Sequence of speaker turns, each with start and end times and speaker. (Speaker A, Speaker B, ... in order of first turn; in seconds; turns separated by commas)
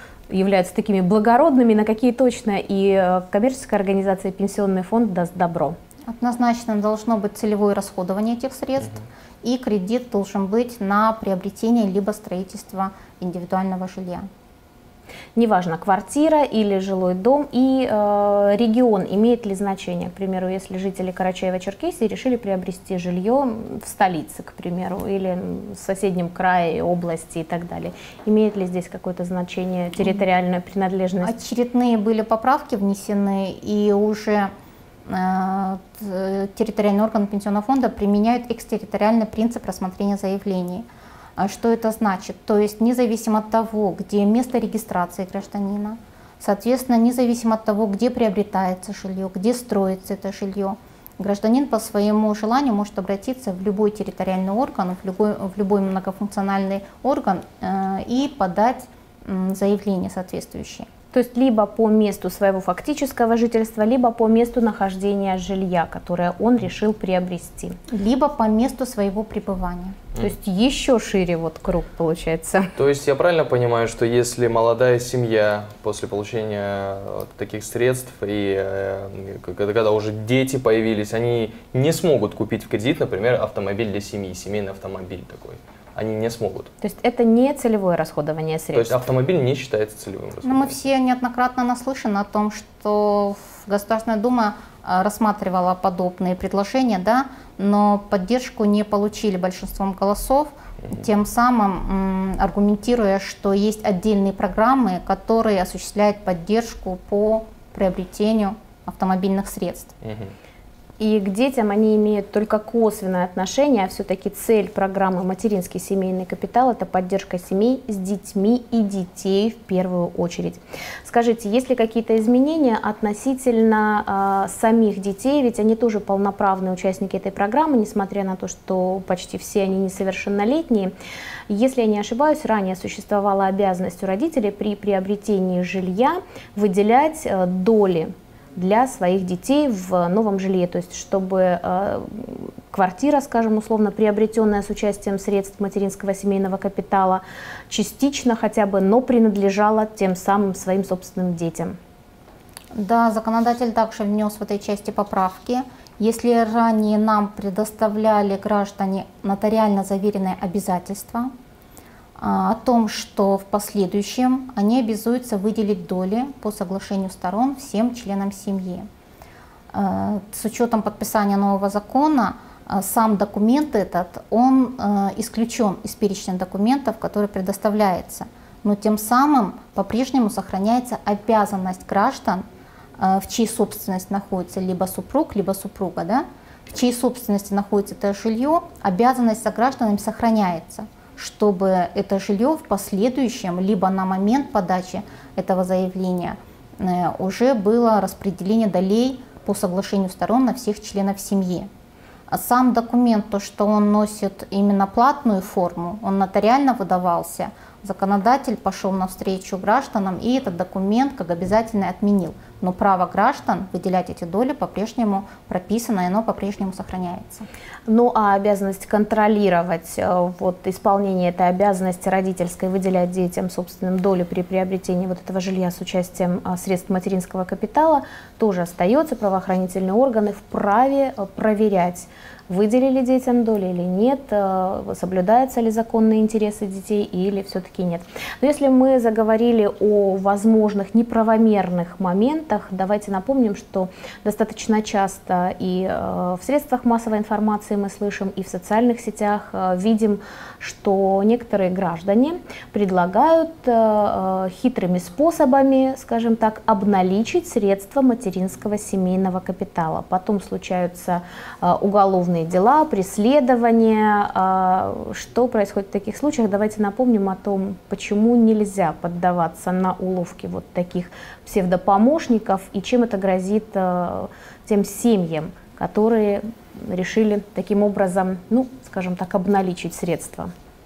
Speaker A: 0.3-5.8, Speaker B: 6.0-14.3, Speaker A: 15.3-31.3, Speaker B: 31.2-34.5, Speaker B: 35.0-60.9, Speaker A: 61.1-67.8, Speaker B: 67.9-70.0, Speaker A: 70.2-72.7, Speaker C: 72.8-86.7, Speaker A: 86.8-89.0, Speaker C: 88.7-90.7, Speaker B: 90.4-109.9, Speaker C: 110.0-110.3, Speaker A: 111.0-130.9, Speaker A: 131.5-151.8, Speaker B: 152.7-161.3, Speaker B: 162.2-168.9, Speaker B: 169.7-182.4, Speaker B: 183.0-201.7, Speaker B: 202.3-217.5, Speaker A: 217.9-280.5